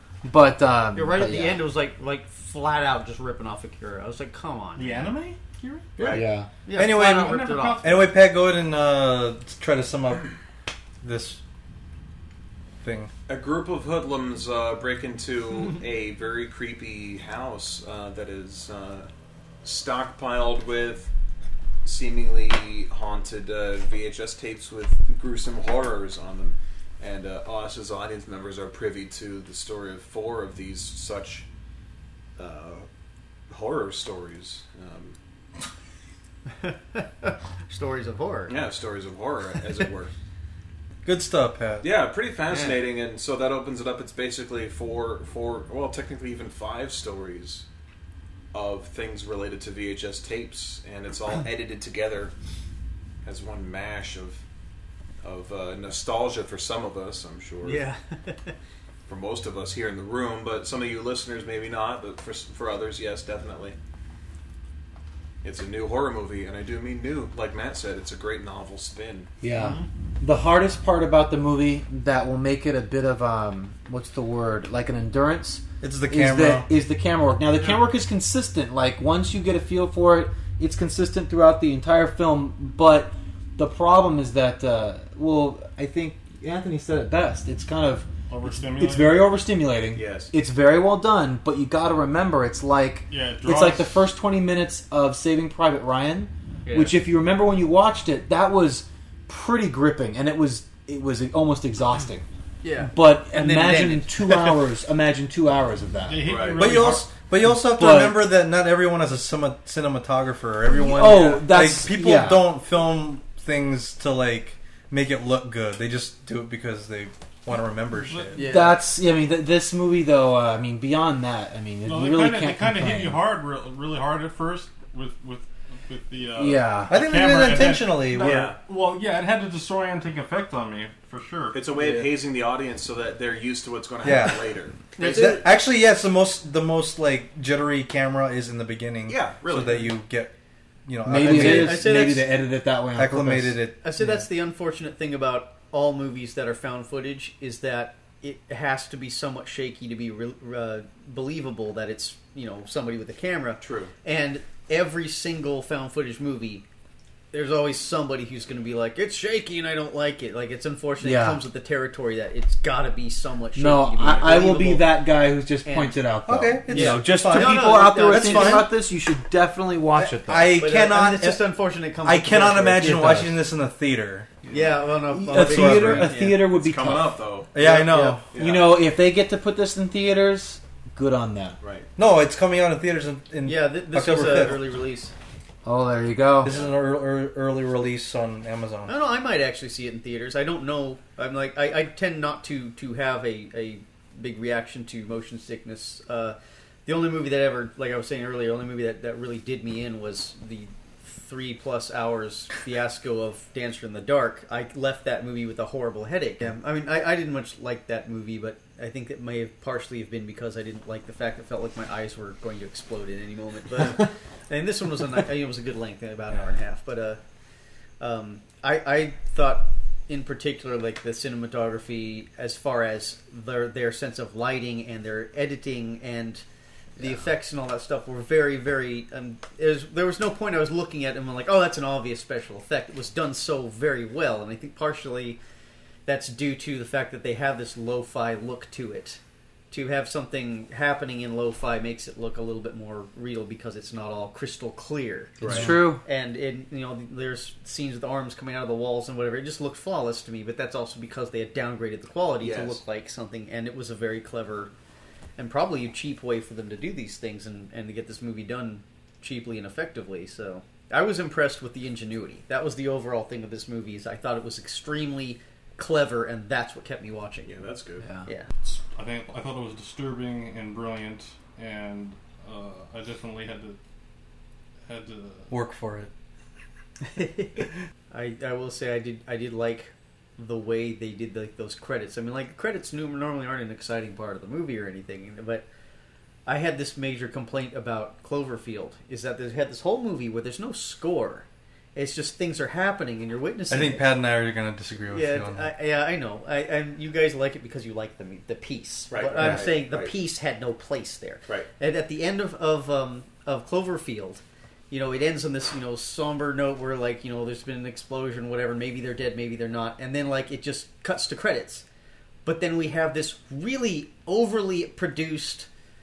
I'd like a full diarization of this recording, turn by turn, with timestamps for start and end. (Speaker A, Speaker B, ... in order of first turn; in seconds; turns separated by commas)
Speaker A: 0.2-1.6, Speaker B: 0.9-5.1, Speaker C: 4.7-6.0, Speaker B: 6.0-8.0, Speaker D: 6.0-6.2, Speaker A: 6.1-6.5, Speaker E: 6.7-10.3, Speaker C: 7.2-8.0, Speaker E: 11.0-11.4, Speaker E: 12.8-13.1, Speaker D: 13.3-19.1, Speaker D: 19.6-21.1, Speaker D: 21.8-31.4, Speaker D: 32.4-32.9, Speaker D: 33.5-35.1, Speaker B: 36.6-38.5, Speaker D: 38.5-40.1, Speaker E: 41.0-41.9, Speaker D: 41.8-47.6, Speaker B: 42.5-42.8, Speaker D: 48.5-52.3, Speaker D: 53.2-54.4, Speaker D: 55.2-57.8, Speaker B: 57.6-58.5, Speaker D: 59.1-63.8, Speaker D: 65.4-69.3, Speaker A: 69.4-102.2, Speaker B: 69.6-69.8, Speaker E: 75.8-76.7, Speaker C: 88.3-89.3, Speaker D: 89.9-90.3, Speaker C: 93.1-94.0, Speaker B: 96.6-97.0, Speaker B: 102.6-104.6, Speaker A: 102.9-106.4, Speaker C: 106.1-107.1, Speaker D: 106.2-106.7, Speaker E: 106.6-118.4, Speaker A: 107.4-108.3, Speaker A: 110.8-112.5, Speaker C: 118.0-118.5, Speaker B: 118.3-118.8, Speaker A: 118.4-123.2, Speaker C: 121.8-131.7, Speaker A: 126.4-126.9, Speaker E: 126.9-128.5, Speaker D: 128.2-128.6, Speaker D: 131.5-135.3, Speaker E: 134.0-140.3, Speaker B: 135.0-135.5, Speaker D: 139.1-139.9, Speaker E: 140.8-142.1, Speaker A: 141.0-143.6, Speaker B: 141.1-142.3, Speaker E: 142.9-144.1, Speaker B: 143.8-156.6, Speaker D: 153.6-153.9, Speaker B: 157.3-165.0, Speaker A: 161.0-161.4, Speaker A: 163.5-170.6, Speaker B: 165.6-166.0, Speaker E: 166.3-168.7, Speaker B: 166.7-168.7, Speaker E: 169.9-171.4, Speaker B: 170.6-173.0, Speaker E: 172.0-174.3, Speaker A: 172.8-173.4, Speaker B: 174.5-176.4, Speaker A: 175.1-177.1, Speaker E: 175.3-176.2, Speaker D: 176.4-177.5, Speaker E: 177.5-178.2, Speaker B: 177.6-178.2, Speaker D: 178.3-178.8, Speaker A: 178.3-181.6, Speaker D: 181.6-181.9, Speaker E: 182.0-184.7, Speaker B: 183.4-185.1, Speaker A: 185.6-186.5, Speaker E: 186.4-188.9, Speaker B: 188.9-217.2, Speaker B: 218.0-226.4, Speaker B: 227.0-235.4, Speaker B: 236.1-239.2, Speaker B: 239.7-254.7, Speaker D: 245.4-245.7, Speaker A: 245.4-246.0, Speaker D: 252.4-252.8, Speaker B: 255.4-267.5, Speaker D: 267.4-268.1, Speaker A: 268.0-268.3, Speaker C: 268.6-273.8, Speaker C: 274.9-275.5, Speaker E: 275.5-276.1, Speaker B: 277.0-285.7, Speaker B: 286.4-294.1, Speaker E: 293.7-295.7, Speaker B: 295.1-311.8, Speaker D: 299.1-300.1, Speaker E: 299.4-299.6, Speaker B: 312.4-315.7